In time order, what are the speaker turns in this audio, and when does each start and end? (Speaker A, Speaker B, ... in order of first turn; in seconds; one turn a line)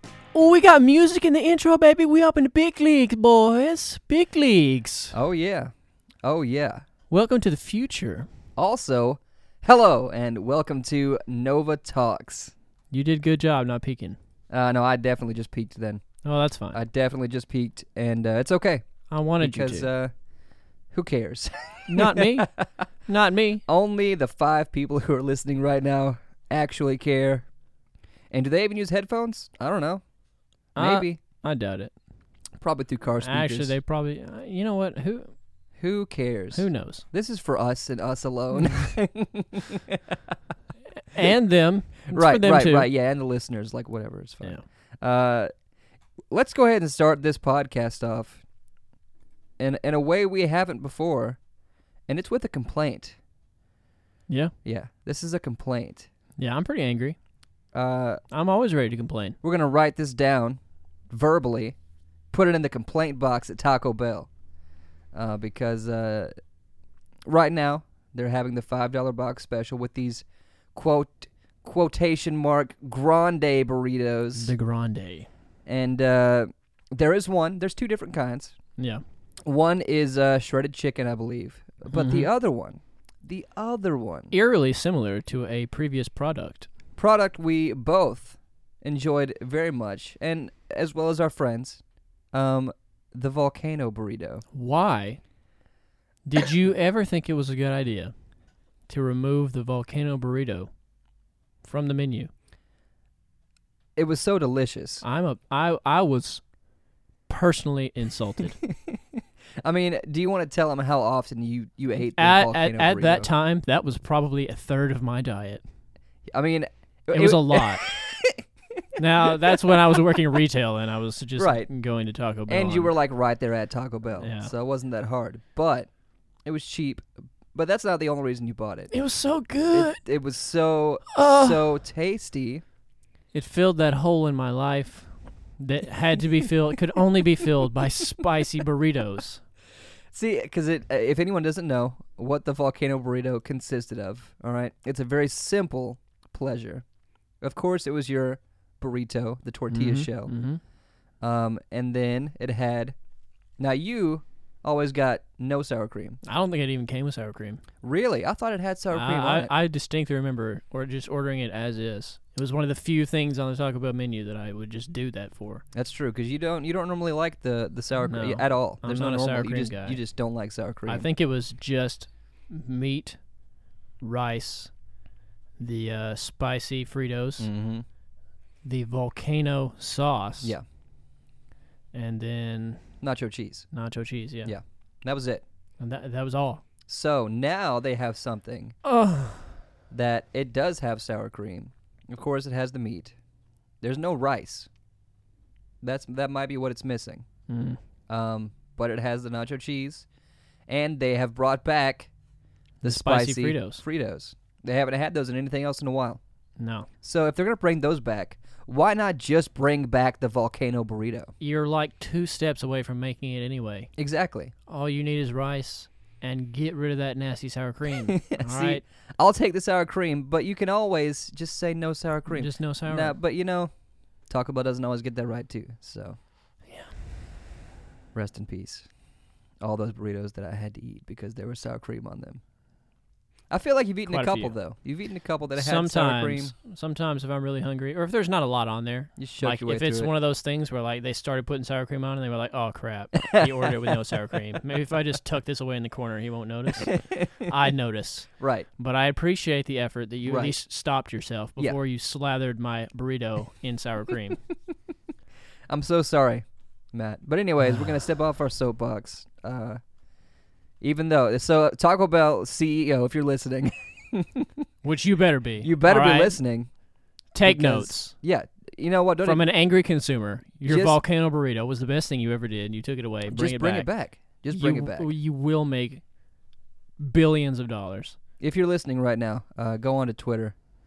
Speaker A: 0.3-5.2
Speaker B: 5.1-5.7
Speaker B: 6.2-6.8
Speaker A: 7.1-8.3
Speaker B: 8.6-12.5
Speaker A: 12.9-14.2
Speaker B: 14.5-16.0
Speaker A: 16.2-16.8
Speaker B: 16.7-18.9
Speaker A: 19.1-19.9
Speaker B: 19.4-20.1
Speaker B: 20.9-22.7
Speaker A: 21.9-22.5
Speaker A: 23.1-23.6
Speaker B: 23.7-27.4
Speaker B: 28.3-30.0
Speaker A: 30.7-31.9
Speaker B: 30.8-31.2
Speaker B: 32.6-33.8
Speaker A: 33.2-35.3
Speaker B: 35.8-40.3
Speaker A: 36.5-37.0
Speaker A: 41.0-42.9
Speaker B: 42.1-45.5
Speaker B: 46.3-48.4
Speaker B: 49.6-51.4
Speaker B: 52.1-53.2
Speaker B: 54.6-56.1
Speaker A: 56.4-57.2
Speaker B: 57.7-58.2
Speaker A: 58.3-59.4
Speaker B: 59.4-60.6
Speaker B: 61.1-61.8
Speaker B: 62.3-64.3
Speaker B: 65.1-66.3
Speaker B: 67.3-70.2
Speaker B: 70.7-74.5
Speaker A: 74.3-75.3
Speaker B: 75.7-78.5
Speaker A: 78.8-79.0
Speaker B: 79.4-84.3
Speaker A: 81.9-82.3
Speaker A: 84.3-86.7
Speaker B: 87.0-91.8
Speaker B: 92.3-94.4
Speaker A: 94.5-95.2
Speaker A: 96.2-98.1
Speaker A: 98.9-100.7
Speaker A: 101.6-102.3
Speaker B: 104.0-105.0
Speaker A: 105.0-106.4
Speaker A: 107.3-108.6
Speaker B: 108.6-113.3
Speaker A: 112.2-115.6
Speaker B: 116.3-120.0
Speaker A: 117.1-117.9
Speaker A: 119.0-122.9
Speaker B: 121.4-121.7
Speaker B: 122.5-125.9
Speaker A: 124.2-124.5
Speaker B: 126.4-128.9
Speaker A: 128.9-130.0
Speaker B: 129.7-132.6
Speaker A: 131.1-131.7
Speaker A: 133.3-139.4
Speaker B: 140.1-146.8
Speaker B: 147.4-150.3
Speaker A: 149.7-150.6
Speaker B: 151.2-152.9
Speaker B: 153.6-156.2
Speaker A: 156.2-157.6
Speaker B: 157.8-159.5
Speaker A: 158.9-165.6
Speaker B: 165.7-171.1
Speaker A: 168.0-170.0
Speaker A: 170.9-173.2
Speaker A: 174.0-174.7
Speaker A: 175.6-177.5
Speaker B: 177.4-177.8
Speaker A: 178.6-180.5
Speaker A: 181.9-182.8
Speaker B: 183.0-183.7
Speaker A: 183.7-184.5
Speaker B: 184.4-185.4
Speaker A: 185.8-186.6
Speaker B: 186.9-188.7
Speaker A: 188.8-189.6
Speaker B: 189.9-193.1
Speaker B: 193.8-194.7
Speaker B: 195.8-197.2
Speaker A: 197.5-197.8
Speaker B: 198.1-200.1
Speaker B: 200.7-202.1
Speaker A: 202.8-203.8
Speaker B: 202.8-206.2
Speaker A: 206.6-206.9
Speaker B: 207.0-211.3
Speaker A: 211.4-213.9
Speaker B: 214.0-214.5
Speaker A: 214.7-218.8
Speaker B: 218.0-223.7
Speaker A: 222.3-223.2
Speaker B: 224.3-226.2
Speaker A: 226.7-226.9
Speaker B: 228.1-228.9
Speaker B: 229.6-232.4
Speaker B: 233.5-236.5
Speaker A: 234.1-234.5
Speaker A: 235.5-254.4
Speaker B: 239.2-240.1
Speaker B: 243.3-243.7
Speaker B: 246.8-247.3
Speaker B: 248.4-248.7
Speaker B: 250.2-250.6
Speaker B: 255.7-259.8
Speaker A: 257.6-257.9
Speaker B: 260.8-264.6
Speaker A: 264.8-266.4
Speaker B: 265.6-266.7
Speaker A: 267.3-268.1
Speaker B: 267.4-269.4
Speaker A: 269.2-273.9
Speaker B: 270.6-271.0
Speaker B: 273.3-275.1
Speaker A: 274.5-276.0
Speaker A: 277.0-278.1
Speaker B: 278.4-280.5